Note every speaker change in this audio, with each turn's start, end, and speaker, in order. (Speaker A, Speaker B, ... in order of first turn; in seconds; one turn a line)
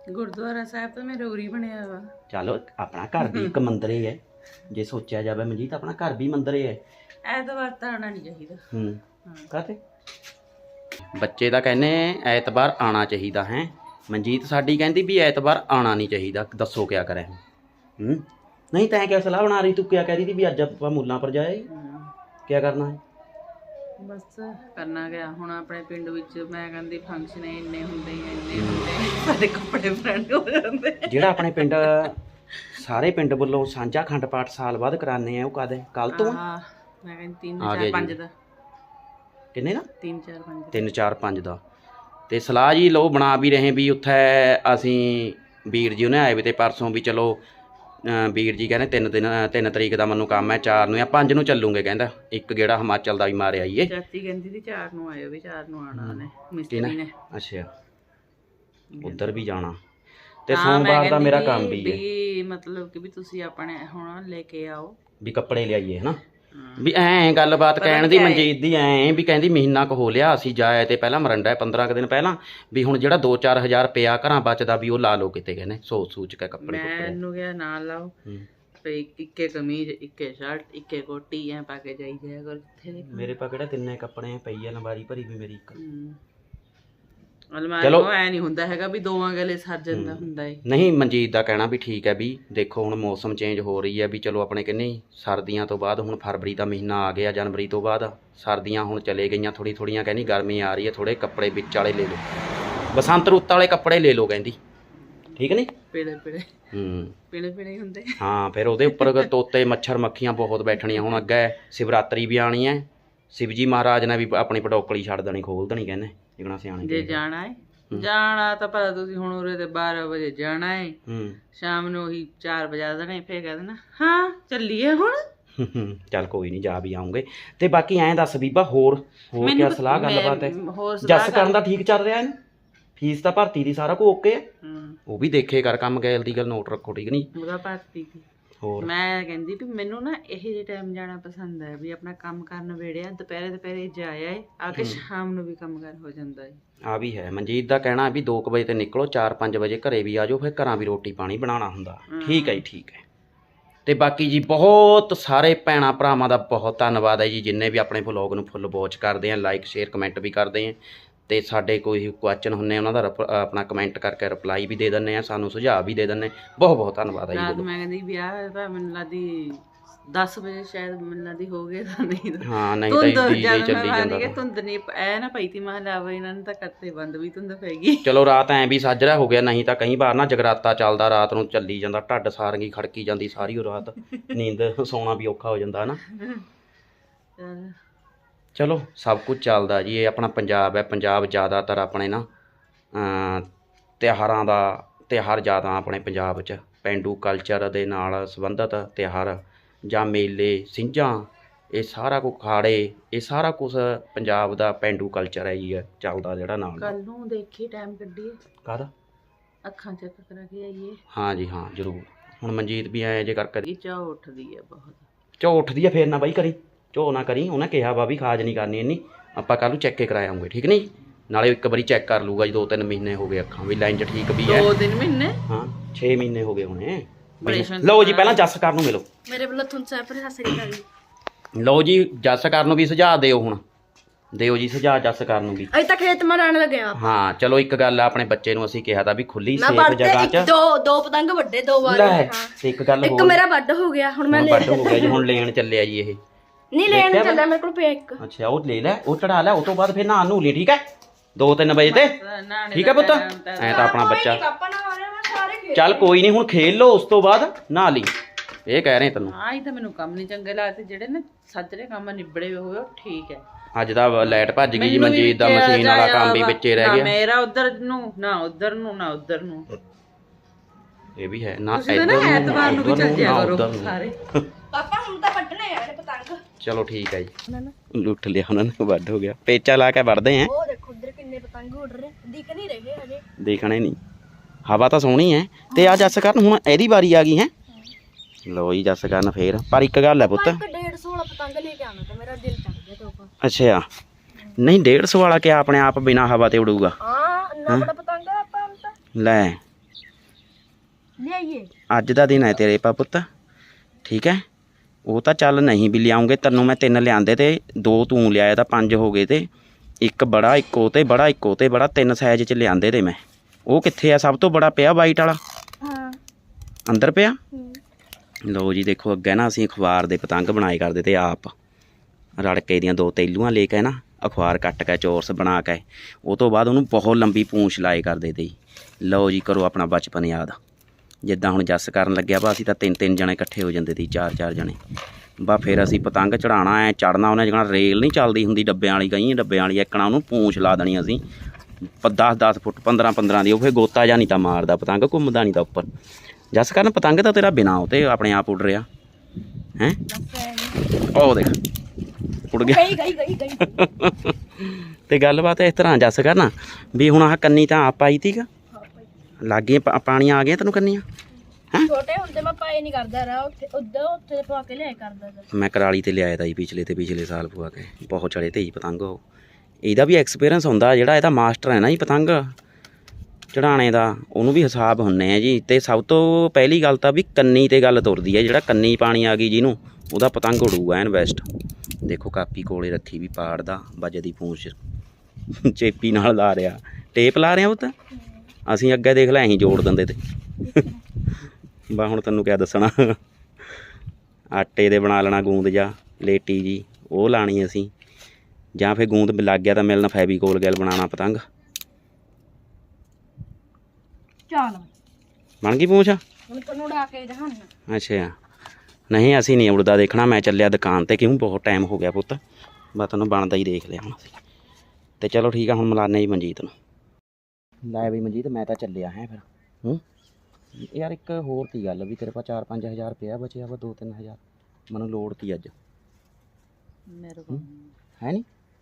Speaker A: 0.1-2.1
Speaker B: 2.3-6.8
Speaker A: 3.2-3.5
Speaker A: 7.2-8.7
Speaker B: 8.7-9.8
Speaker B: 11.1-17.4
Speaker B: 18.0-21.7
Speaker A: 21.7-22.1
Speaker B: 22.5-23.0
Speaker A: 24.0-32.1
Speaker B: 28.5-28.9
Speaker B: 31.1-32.2
Speaker B: 32.7-36.4
Speaker A: 36.1-38.3
Speaker B: 37.6-38.1
Speaker B: 39.5-39.9
Speaker A: 40.0-40.9
Speaker B: 40.7-41.6
Speaker B: 42.3-47.4
Speaker B: 48.0-53.9
Speaker A: 50.5-50.8
Speaker A: 53.9-57.1
Speaker B: 55.9-57.7
Speaker A: 58.9-59.4
Speaker B: 59.0-59.8
Speaker B: 60.5-62.0
Speaker A: 60.5-65.0
Speaker B: 65.2-66.2
Speaker A: 66.5-66.9
Speaker B: 66.8-77.2
Speaker A: 67.8-68.5
Speaker A: 76.6-78.1
Speaker A: 78.8-83.3
Speaker B: 83.0-85.8
Speaker A: 85.7-86.2
Speaker A: 87.5-90.6
Speaker B: 87.8-88.1
Speaker B: 89.9-102.2
Speaker B: 102.9-104.6
Speaker A: 105.1-106.5
Speaker B: 105.4-105.7
Speaker B: 106.7-107.2
Speaker A: 107.3-108.2
Speaker B: 108.2-117.2
Speaker A: 108.9-109.3
Speaker A: 110.8-111.1
Speaker A: 116.8-121.0
Speaker B: 121.1-121.4
Speaker A: 121.5-125.2
Speaker B: 125.6-132.4
Speaker A: 129.4-131.6
Speaker B: 133.0-134.5
Speaker A: 134.6-135.0
Speaker B: 135.1-137.3
Speaker A: 137.3-138.2
Speaker B: 138.6-138.9
Speaker A: 138.8-146.6
Speaker B: 144.8-145.0
Speaker B: 146.8-153.0
Speaker A: 152.1-152.6
Speaker B: 153.8-167.7
Speaker A: 167.3-178.1
Speaker B: 172.4-174.3
Speaker B: 178.0-186.0
Speaker A: 186.1-186.4
Speaker A: 187.4-187.8
Speaker B: 188.6-192.3
Speaker B: 192.9-193.5
Speaker B: 194.0-206.9
Speaker A: 206.8-208.4
Speaker B: 208.6-208.9
Speaker A: 209.6-211.0
Speaker B: 211.1-213.7
Speaker A: 213.7-215.1
Speaker B: 215.4-224.7
Speaker A: 224.4-225.4
Speaker B: 225.5-229.1
Speaker A: 227.4-228.4
Speaker C: 229.3-230.8
Speaker B: 231.6-233.6
Speaker B: 234.3-235.7
Speaker C: 235.7-237.0
Speaker B: 236.9-240.5
Speaker C: 239.6-245.2
Speaker B: 241.8-243.4
Speaker B: 244.3-246.2
Speaker C: 246.7-248.2
Speaker B: 246.9-247.4
Speaker B: 248.2-250.8
Speaker B: 251.3-252.1
Speaker A: 251.8-253.9
Speaker B: 252.7-254.4
Speaker C: 253.7-256.3
Speaker B: 255.7-258.1
Speaker B: 258.7-259.3
Speaker A: 259.2-263.4
Speaker B: 263.7-267.1
Speaker A: 264.2-269.7
Speaker B: 271.2-274.5
Speaker A: 271.7-274.1
Speaker C: 274.7-276.4
Speaker B: 276.6-277.3
Speaker C: 277.5-277.7
Speaker B: 277.9-280.5
Speaker C: 280.4-283.2
Speaker B: 283.4-284.0
Speaker B: 284.6-287.5
Speaker C: 285.7-286.1
Speaker B: 288.5-290.6
Speaker C: 290.2-293.3
Speaker B: 293.4-293.8
Speaker B: 294.6-296.9
Speaker C: 297.0-298.9
Speaker B: 299.1-299.6
Speaker C: 301.2-301.7
Speaker B: 301.9-303.3
Speaker B: 304.1-304.4
Speaker B: 305.1-309.5
Speaker B: 310.0-315.4
Speaker C: 315.8-316.2
Speaker B: 316.9-317.4
Speaker C: 317.5-317.8
Speaker B: 318.5-321.5
Speaker B: 322.4-330.6
Speaker B: 331.2-334.8
Speaker B: 335.4-341.2
Speaker B: 342.0-345.9
Speaker B: 346.5-348.9
Speaker C: 350.1-350.8
Speaker B: 351.0-351.6
Speaker B: 352.4-353.0
Speaker C: 352.6-353.8
Speaker B: 353.6-358.5
Speaker C: 358.7-359.1
Speaker B: 359.4-361.0
Speaker C: 361.8-365.5
Speaker B: 365.5-369.2
Speaker B: 369.8-372.5
Speaker B: 373.5-381.4
Speaker B: 382.0-384.8
Speaker B: 385.5-387.9
Speaker C: 388.1-388.4
Speaker B: 388.6-390.2
Speaker C: 390.6-391.0
Speaker B: 391.9-393.2
Speaker B: 394.5-397.9
Speaker B: 398.8-401.4
Speaker C: 404.5-404.9
Speaker B: 405.6-406.2
Speaker C: 406.5-407.7
Speaker B: 407.9-408.4
Speaker B: 409.1-412.4
Speaker B: 412.9-414.3
Speaker B: 415.2-416.7
Speaker B: 417.8-420.0
Speaker B: 420.8-424.4
Speaker B: 424.9-425.7
Speaker A: 427.1-427.9
Speaker B: 428.2-428.4